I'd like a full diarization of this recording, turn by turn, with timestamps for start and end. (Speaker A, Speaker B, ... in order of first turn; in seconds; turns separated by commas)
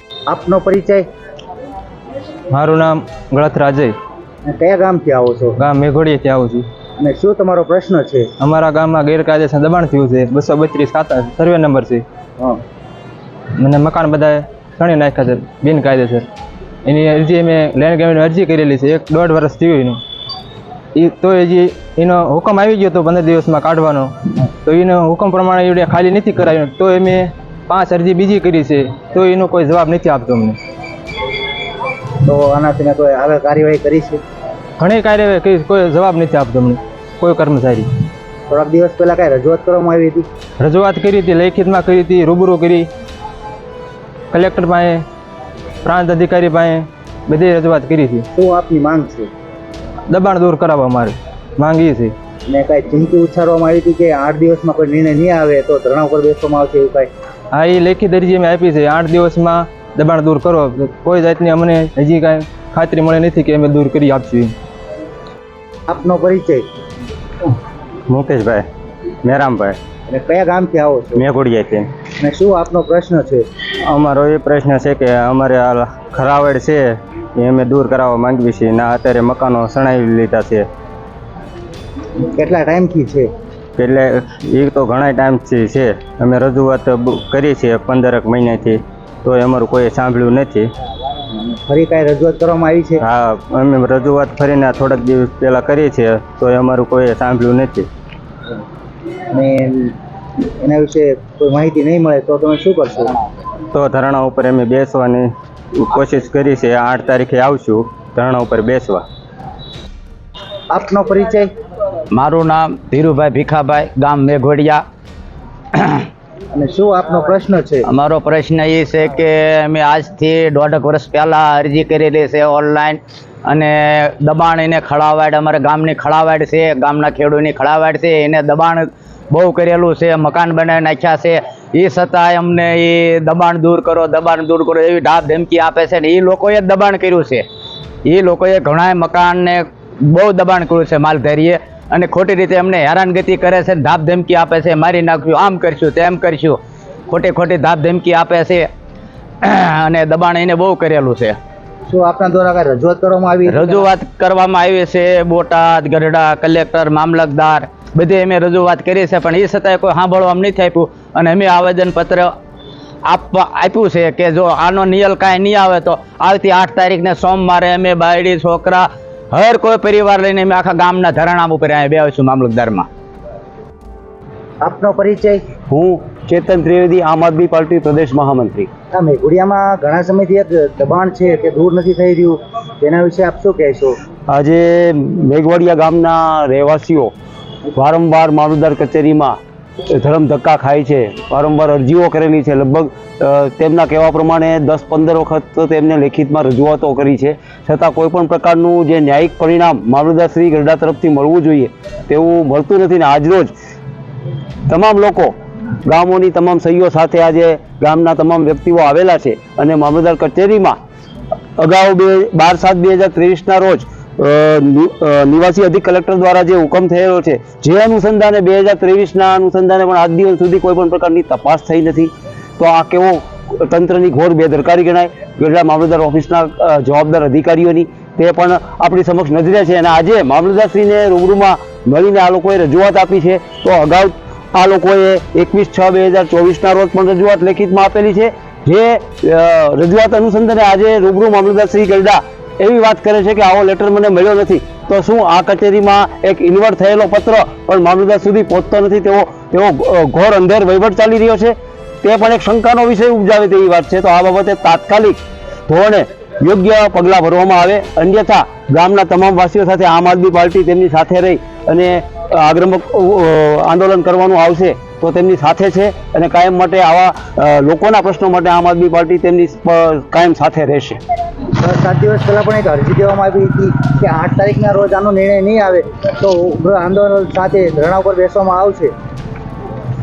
Speaker A: 0.3-1.1, Speaker B: 2.5-4.0, Speaker A: 4.5-5.6, Speaker B: 5.6-6.7, Speaker A: 7.0-8.3, Speaker B: 8.4-12.0, Speaker B: 13.6-16.3, Speaker B: 16.8-20.0, Speaker B: 20.9-30.6, Speaker A: 32.2-34.2, Speaker B: 34.8-37.9, Speaker A: 38.5-40.3, Speaker B: 40.6-42.9, Speaker B: 44.3-45.0, Speaker B: 45.8-48.2, Speaker A: 48.3-49.3, Speaker B: 50.1-52.1, Speaker A: 52.5-57.1, Speaker B: 57.5-64.5, Speaker A: 65.9-66.7, Speaker C: 68.1-68.6, Speaker C: 69.2-69.8, Speaker A: 70.1-71.2, Speaker C: 71.2-71.8, Speaker A: 72.2-73.5, Speaker C: 73.9-80.7, Speaker A: 82.2-83.3, Speaker C: 83.8-90.7, Speaker A: 91.4-93.0, Speaker C: 93.0-97.9, Speaker A: 99.3-99.9, Speaker A: 100.5-103.1, Speaker C: 103.7-109.0, Speaker A: 110.7-111.5, Speaker D: 112.1-114.8, Speaker D: 115.8-116.0, Speaker A: 116.5-117.9, Speaker D: 117.9-137.4, Speaker D: 138.1-146.6, Speaker D: 147.1-148.7, Speaker D: 149.4-151.4, Speaker A: 151.9-153.8, Speaker D: 153.5-162.3, Speaker D: 163.1-172.9, Speaker A: 174.6-175.4, Speaker E: 175.7-178.7, Speaker A: 178.9-184.0, Speaker E: 184.3-187.1, Speaker E: 187.7-189.4, Speaker E: 189.9-203.5, Speaker E: 204.7-210.8, Speaker E: 211.6-271.0, Speaker A: 271.6-278.9